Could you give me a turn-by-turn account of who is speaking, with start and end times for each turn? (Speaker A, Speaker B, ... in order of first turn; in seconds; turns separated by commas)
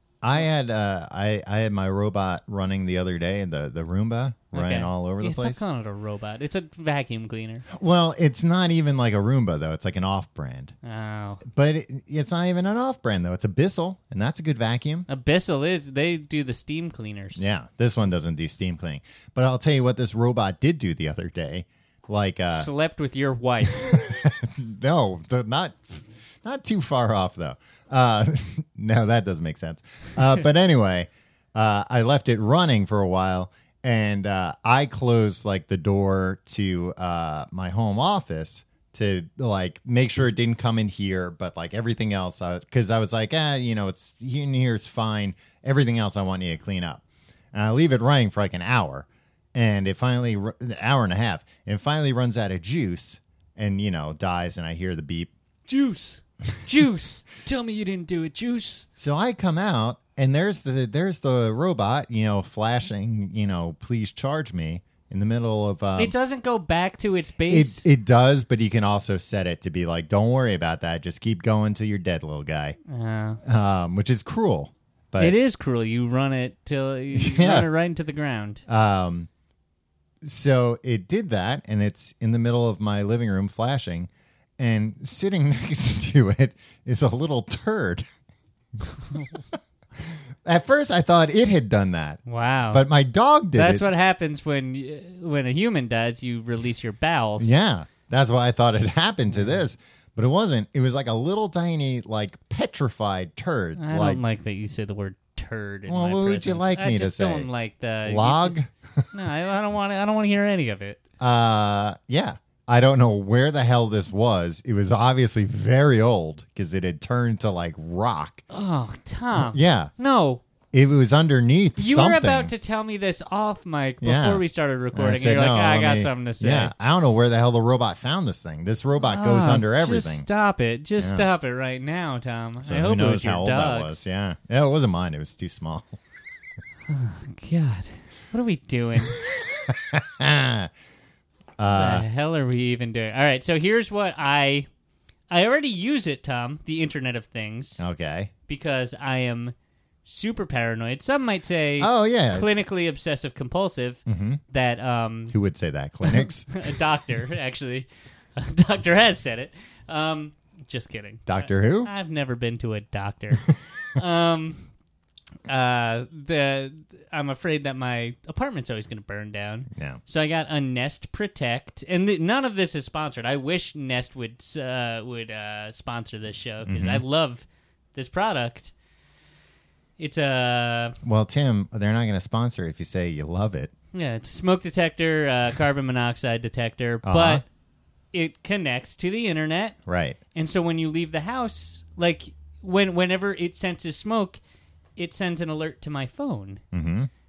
Speaker A: 0.2-5.6, Speaker B: 4.5-7.7, Speaker A: 7.7-10.7, Speaker B: 10.8-11.4, Speaker A: 11.4-15.1, Speaker B: 15.1-17.5, Speaker A: 17.4-22.7, Speaker B: 22.5-24.0, Speaker A: 23.7-47.0, Speaker A: 47.5-55.3, Speaker B: 55.7-58.9, Speaker A: 59.0-66.1, Speaker B: 66.0-67.8, Speaker A: 67.5-72.8, Speaker B: 72.9-73.4, Speaker A: 73.4-75.3, Speaker B: 75.2-78.6, Speaker A: 77.1-77.7, Speaker A: 78.7-79.3, Speaker A: 80.2-88.0, Speaker A: 89.1-89.4, Speaker A: 90.0-92.2, Speaker B: 92.2-92.8, Speaker A: 92.7-93.9, Speaker B: 93.5-97.5, Speaker A: 97.4-104.2, Speaker B: 99.3-99.6, Speaker B: 103.8-108.6, Speaker A: 105.9-107.5, Speaker A: 108.0-109.1, Speaker B: 109.1-111.0, Speaker A: 111.2-118.4, Speaker B: 118.5-120.4, Speaker A: 119.3-119.9, Speaker A: 120.7-122.5, Speaker B: 121.8-126.7, Speaker A: 124.0-130.2, Speaker B: 129.0-134.0, Speaker A: 131.0-131.2, Speaker A: 132.6-136.0, Speaker B: 136.9-139.3, Speaker A: 139.2-140.7, Speaker A: 141.6-142.0, Speaker B: 141.7-144.7, Speaker B: 145.3-147.8, Speaker A: 147.8-148.3, Speaker B: 148.5-155.3, Speaker A: 151.8-152.5, Speaker A: 154.1-154.4, Speaker A: 155.3-156.8, Speaker B: 156.0-164.7, Speaker A: 161.3-161.9, Speaker B: 165.5-178.7, Speaker A: 169.7-170.0, Speaker A: 176.6-177.0, Speaker B: 180.0-181.0, Speaker A: 181.0-183.7, Speaker B: 183.9-187.4, Speaker A: 187.0-187.4, Speaker B: 188.1-189.8, Speaker A: 189.9-190.2, Speaker B: 190.3-194.4, Speaker B: 195.0-196.6, Speaker A: 196.7-197.1